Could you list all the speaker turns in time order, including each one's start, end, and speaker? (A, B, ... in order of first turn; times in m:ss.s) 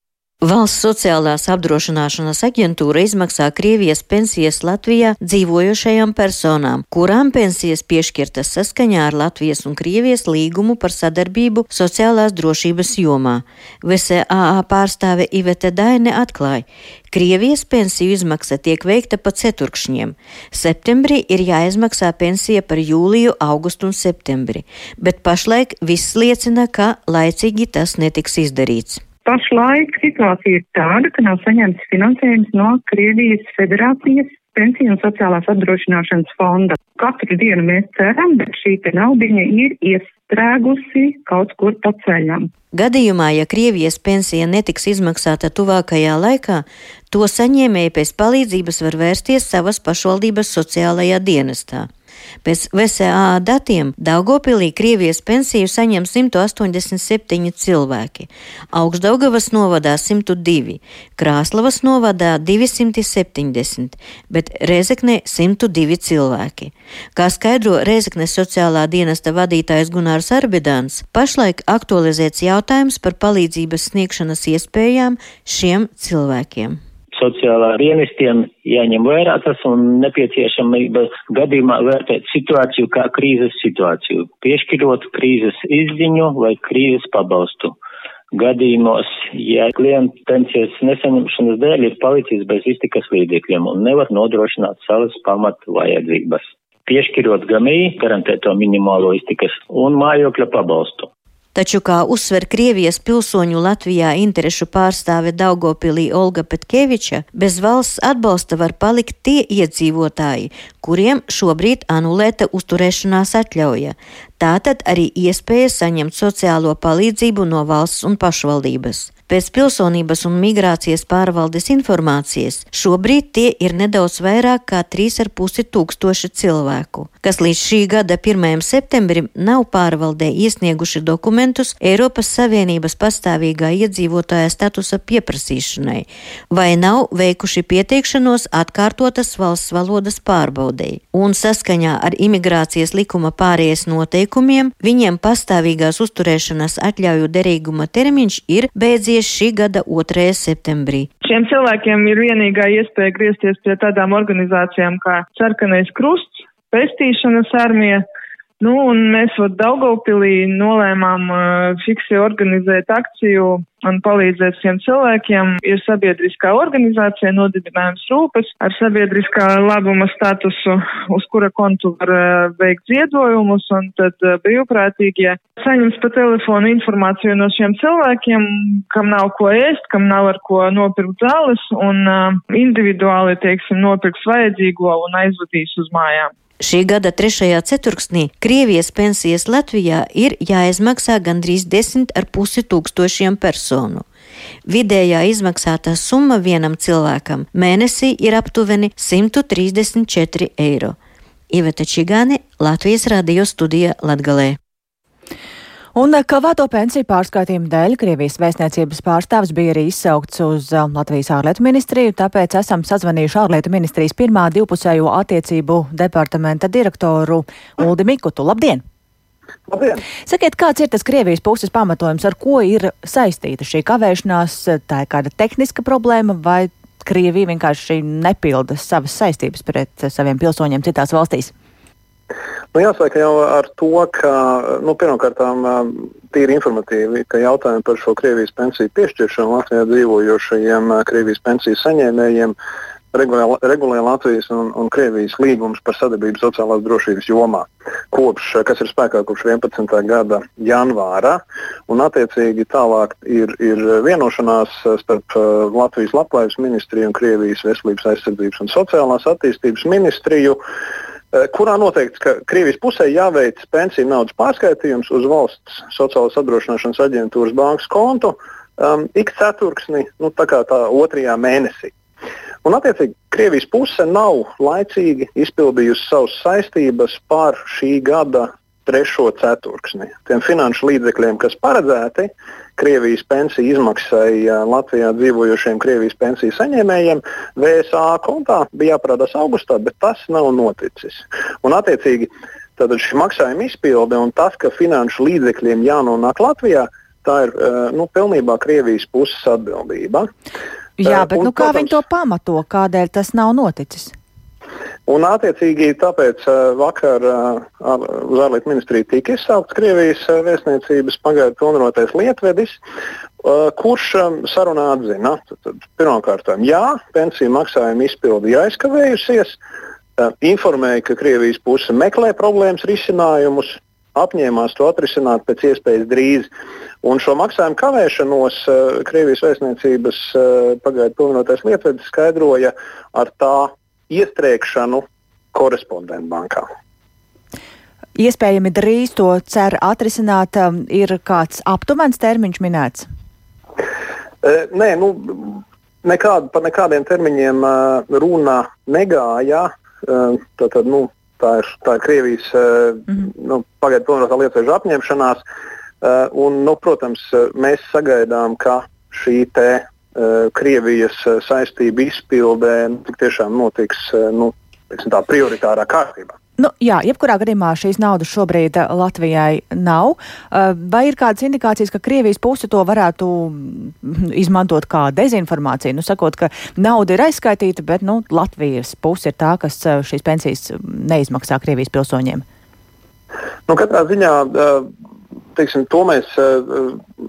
0:00.4-0:29.0 A
0:29.2-0:42.5 B
0:42.7-0:51.9 A
0:52.4-1:16.8 A
1:17.1-1:27.7 C
1:28.3-1:41.1 C
1:41.6-2:31.1 A
2:31.2-2:38.0 D
2:38.6-3:06.3 D
3:06.6-3:14.0 A
3:14.7-3:21.0 A
3:21.5-3:24.6 A
3:26.0-3:38.8 E
3:39.7-3:40.0 F
3:40.3-3:51.5 E
3:52.7-4:02.6 F
4:03.1-4:20.6 F
4:21.3-4:31.9 F
4:32.6-5:00.3 F
5:01.0-5:04.1 E
5:01.0-5:02.0 F
5:05.1-5:12.8 F
5:13.4-5:19.6 F
5:20.2-5:26.5 F
5:27.0-5:36.7 F
5:38.2-5:43.1 E
5:44.4-5:55.4 F
5:56.0-6:06.4 F
6:06.6-6:22.4 E
6:23.7-6:24.9 F
6:25.6-6:27.0 F